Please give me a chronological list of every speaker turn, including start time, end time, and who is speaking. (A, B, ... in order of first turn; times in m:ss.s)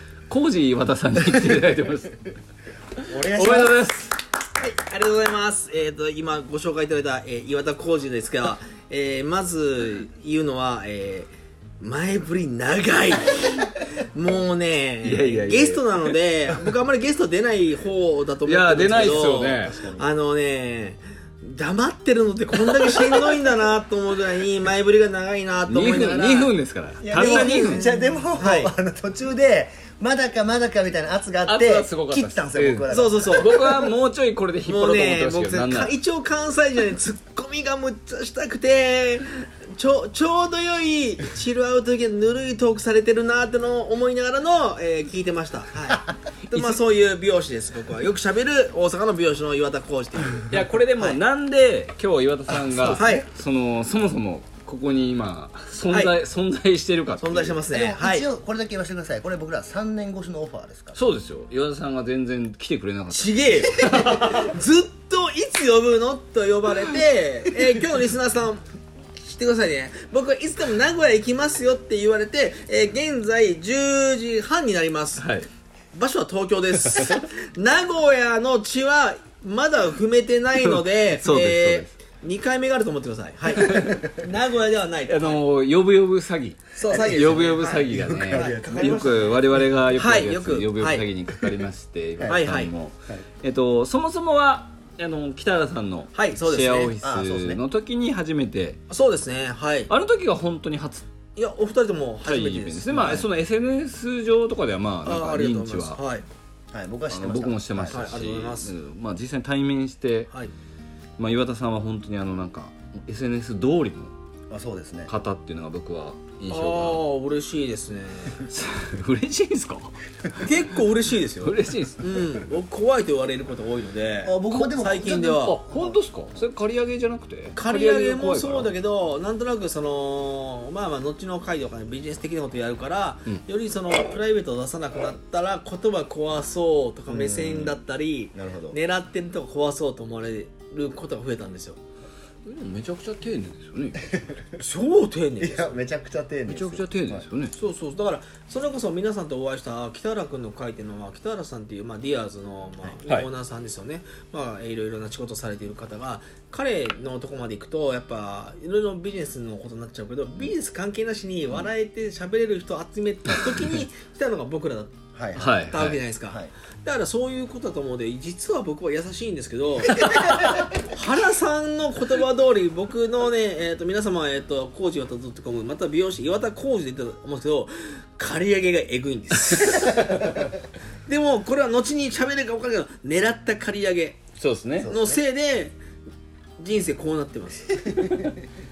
0:00.3-0:02.3 A
0:03.1-0:03.8 B
0:03.2-0:04.2 A
0:04.6-0:11.3 C
0:11.8-0:26.5 C
0:15.0-0:16.2 A
0:18.4-0:19.8 A
0:18.9-0:20.1 B
0:25.7-0:27.8 A
0:25.9-0:33.9 B
0:27.1-0:28.7 C
0:31.5-0:36.0 A
0:32.9-0:33.9 C
0:34.7-0:51.2 C
0:46.5-0:46.8 A
0:50.5-0:57.6 A
0:52.8-0:53.3 C
0:55.9-0:56.2 C
0:57.2-0:58.3 C
0:57.7-1:01.0 B
1:01.0-1:04.5 A
1:03.1-1:08.6 C
1:09.2-1:15.3 C
1:15.2-1:15.5 A
1:15.9-1:25.4 C
1:20.6-1:21.9 A
1:23.6-1:24.0 B
1:25.1-1:38.8 A
1:26.8-1:31.1 C
1:26.9-1:29.4 B
1:32.2-1:32.4 B
1:32.2-1:32.7 C
1:36.1-1:37.0 C
1:37.0-1:37.6 B
1:38.9-1:39.9 C
1:39.9-1:41.1 A
1:41.4-1:43.2 C
1:42.2-1:46.0 A
1:42.9-1:43.2 B
1:45.0-1:46.2 C
1:46.7-1:48.2 B
1:47.1-1:50.3 A
1:47.9-1:48.7 C
1:51.2-1:54.1 A
1:54.5-1:55.1 B
1:55.1-1:57.0 A
1:56.5-1:58.5 C
1:58.5-2:00.4 A
2:00.4-2:05.6 C
2:01.4-2:02.1 A
2:04.2-2:06.4 B
2:04.5-2:08.7 A
2:07.5-2:21.8 C
2:17.1-2:17.8 B
2:18.3-2:18.8 B
2:22.4-2:24.1 A
2:24.6-2:25.6 C
2:25.4-2:27.2 B
2:26.5-2:27.6 A
2:27.6-3:00.6 C
2:45.2-2:45.6 B
2:45.4-2:46.0 A
2:50.0-2:50.5 B
2:50.0-2:50.4 A
3:01.1-3:04.2 C
3:04.4-3:04.9 A
3:04.8-3:05.2 B
3:04.9-3:05.8 C
3:06.6-3:08.3 C
3:08.0-3:08.3 B